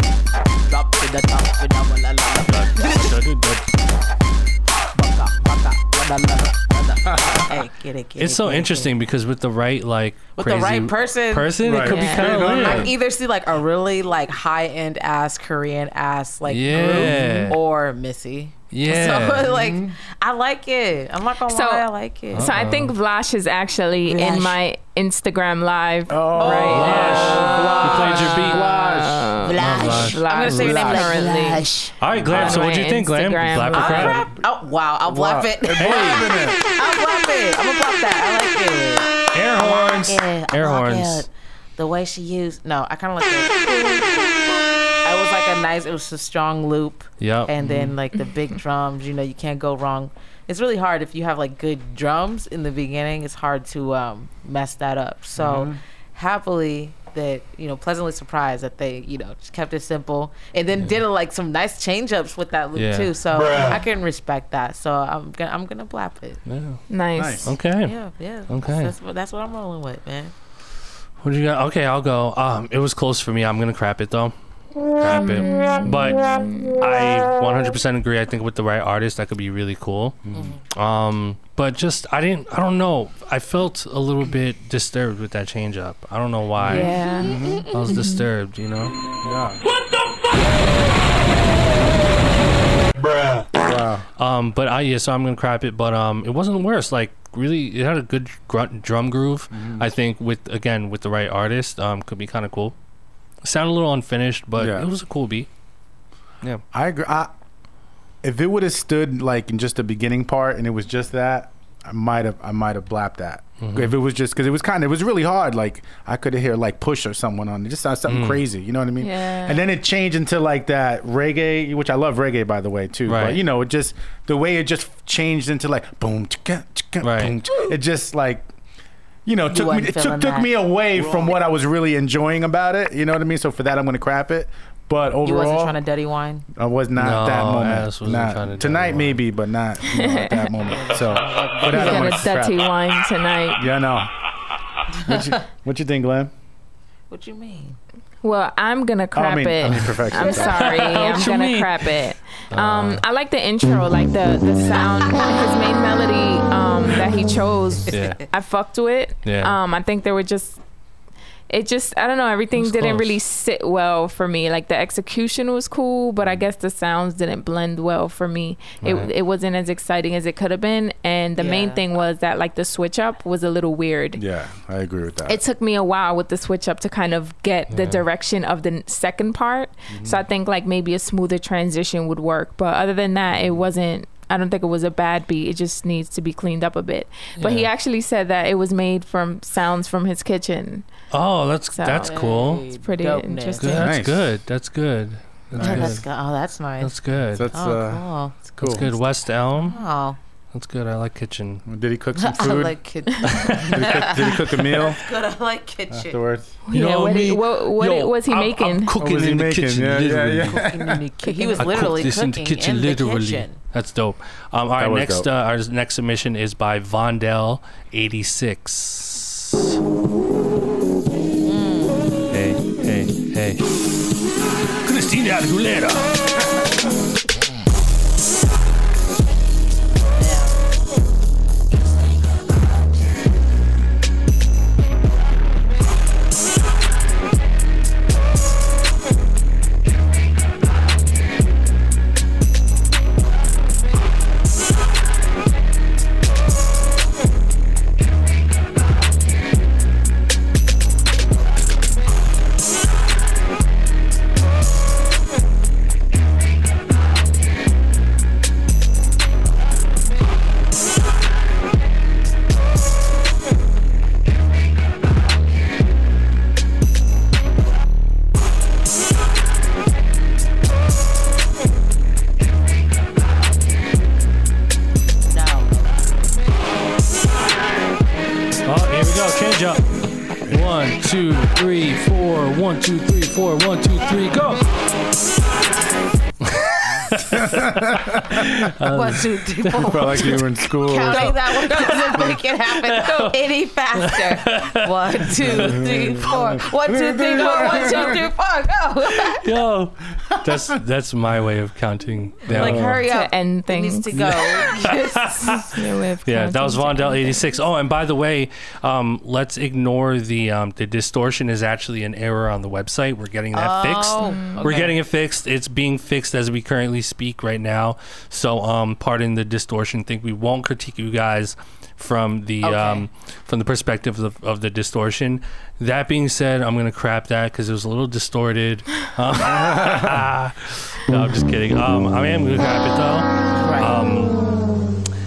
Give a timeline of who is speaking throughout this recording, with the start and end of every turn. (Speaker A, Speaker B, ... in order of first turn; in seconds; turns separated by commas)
Speaker A: 0.7-3.2, Speaker B: 2.4-3.6, Speaker A: 4.9-8.9, Speaker C: 7.1-7.5, Speaker B: 8.2-12.9, Speaker A: 10.3-22.5, Speaker C: 11.6-12.9, Speaker D: 11.9-12.3, Speaker B: 16.5-17.6, Speaker C: 16.7-17.2, Speaker D: 17.2-17.5, Speaker B: 18.7-19.5, Speaker C: 19.4-20.0, Speaker D: 21.5-27.1, Speaker B: 22.3-22.9, Speaker A: 24.1-24.6, Speaker C: 26.1-29.4, Speaker A: 26.4-28.7, Speaker B: 26.7-28.7, Speaker D: 28.1-31.7, Speaker A: 29.4-32.7, Speaker B: 29.6-31.0, Speaker B: 32.0-34.2, Speaker C: 32.1-32.6, Speaker D: 32.3-34.2, Speaker A: 33.7-66.4, Speaker C: 33.8-34.5, Speaker C: 35.0-36.6, Speaker B: 35.8-36.3, Speaker B: 39.3-41.2, Speaker B: 47.2-47.5, Speaker C: 47.6-48.0, Speaker C: 55.4-55.8, Speaker B: 62.8-63.7, Speaker B: 66.5-66.8, Speaker D: 66.9-67.5, Speaker C: 67.2-67.6, Speaker B: 67.4-68.0, Speaker A: 67.8-70.3, Speaker B: 68.5-68.9, Speaker B: 71.2-74.3, Speaker B: 74.9-86.9, Speaker D: 75.1-76.8, Speaker C: 80.3-80.6, Speaker A: 80.3-80.6, Speaker C: 86.6-87.7, Speaker D: 86.7-88.3, Speaker A: 86.8-87.7, Speaker B: 87.7-89.0, Speaker C: 89.2-89.6, Speaker C: 93.6-94.1, Speaker B: 94.2-102.8, Speaker C: 99.5-99.9, Speaker B: 103.4-105.5, Speaker C: 104.6-104.9, Speaker C: 106.7-107.3, Speaker C: 108.2-128.5, Speaker B: 113.6-113.9, Speaker B: 118.1-118.4, Speaker D: 119.0-119.6, Speaker B: 123.1-123.4, Speaker B: 127.0-127.4, Speaker C: 129.2-135.8, Speaker A: 129.5-131.4, Speaker A: 135.2-136.5, Speaker C: 136.6-142.7, Speaker B: 137.0-139.2, Speaker D: 139.9-140.5, Speaker A: 140.7-142.2, Speaker D: 141.7-143.6, Speaker C: 143.6-144.1, Speaker A: 144.9-145.4, Speaker C: 145.1-146.3, Speaker A: 147.1-147.8, Speaker D: 148.2-160.6, Speaker C: 149.1-150.8, Speaker B: 149.7-151.9, Speaker B: 152.5-153.0, Speaker B: 157.9-158.2, Speaker B: 159.2-159.6, Speaker D: 161.5-174.2, Speaker B: 162.6-163.1, Speaker B: 168.8-169.1, Speaker A: 171.4-171.8, Speaker C: 174.2-175.4, Speaker D: 175.3-190.9, Speaker B: 177.7-178.0, Speaker C: 179.9-180.2, Speaker B: 187.4-187.7, Speaker B: 191.1-192.7, Speaker D: 191.7-193.8, Speaker A: 192.0-193.9, Speaker B: 193.6-196.0, Speaker C: 193.8-194.3, Speaker C: 195.5-196.0, Speaker A: 195.6-197.0, Speaker B: 196.8-197.5, Speaker C: 197.3-198.9, Speaker A: 197.5-200.2, Speaker B: 198.6-199.8, Speaker B: 200.5-201.7, Speaker C: 201.7-202.8, Speaker A: 202.2-206.2, Speaker B: 203.3-204.3, Speaker C: 203.4-205.0, Speaker C: 205.9-206.6, Speaker D: 206.7-209.0, Speaker B: 206.7-210.6, Speaker C: 209.0-211.0, Speaker A: 210.5-213.6, Speaker D: 211.2-211.8, Speaker B: 211.6-219.8, Speaker C: 214.8-215.3, Speaker A: 221.4-222.3, Speaker B: 222.3-223.6, Speaker B: 224.8-226.1, Speaker A: 230.2-230.6, Speaker A: 275.3-276.1, Speaker B: 278.6-279.9, Speaker B: 280.5-284.6, Speaker B: 286.4-296.3, Speaker C: 287.3-288.6, Speaker A: 288.9-299.5, Speaker C: 289.8-291.4, Speaker C: 295.4-298.2, Speaker B: 299.1-303.0, Speaker C: 302.5-303.0, Speaker A: 302.5-305.7, Speaker D: 303.1-304.1, Speaker B: 304.1-305.7, Speaker D: 305.5-307.5, Speaker B: 306.3-334.4, Speaker A: 313.5-315.0, Speaker D: 314.2-314.7, Speaker A: 322.6-323.1, Speaker C: 329.5-330.1, Speaker A: 333.6-334.0